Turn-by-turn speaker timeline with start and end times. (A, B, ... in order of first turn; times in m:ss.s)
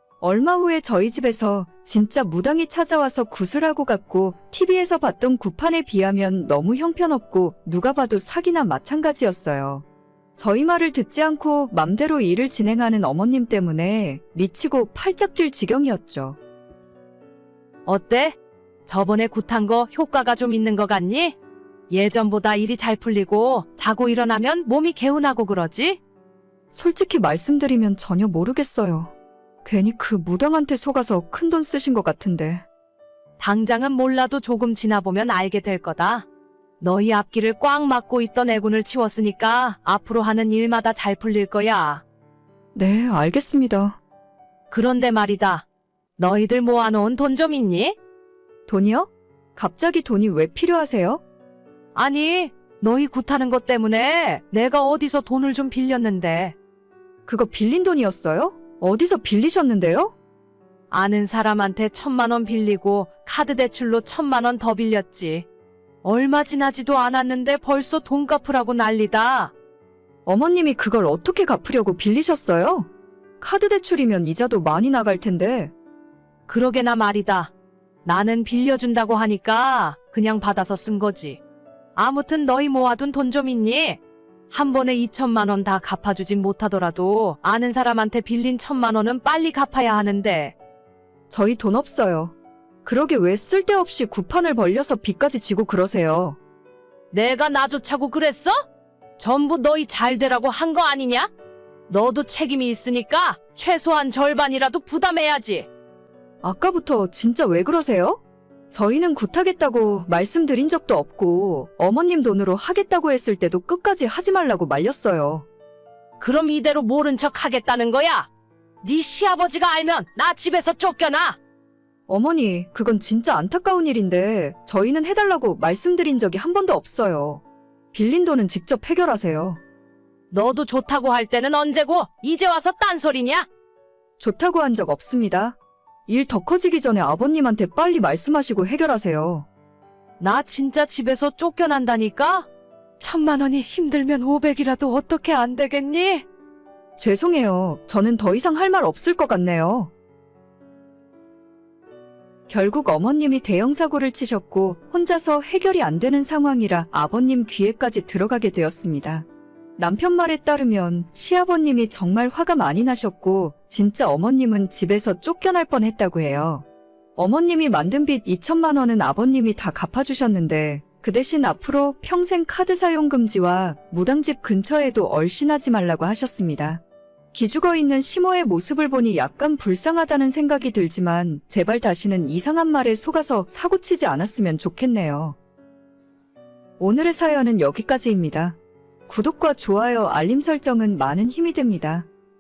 0:00.2-0:09.8 A
0:10.4-0:16.4 A
0:17.9-0:21.4 B
0:21.9-0:26.0 B
0:26.7-0:29.1 A
0:29.6-0:32.6 A
0:33.4-0:36.3 B
0:36.8-0:42.0 B
0:42.8-0:44.0 A
0:44.7-0:45.6 B
0:46.2-0:48.0 B
0:48.7-0:51.2 A
0:52.0-0:56.6 B
0:57.3-1:00.1 A
1:00.9-1:05.5 B
1:06.0-1:09.5 B
1:10.3-1:12.9 A
1:13.4-1:15.7 A
1:16.5-1:17.5 B
1:18.0-1:21.4 B
1:22.0-1:24.0 B
1:24.5-1:30.6 B
1:31.3-1:36.4 A
1:37.1-1:38.6 B
1:39.2-1:41.3 B
1:41.9-1:45.7 B
1:46.4-1:55.5 A
1:56.2-1:58.3 B
1:58.8-2:01.4 B
2:02.1-2:09.6 A
2:10.3-2:13.5 B
2:14.2-2:19.5 A
2:20.2-2:22.5 B
2:23.0-2:26.3 B
2:27.0-2:29.9 A
2:32.5-2:39.3 A
2:39.8-2:46.6 A
2:47.2-2:56.8 A
2:57.3-3:05.4 A
3:06.8-3:08.6 A
3:09.1-3:12.1 A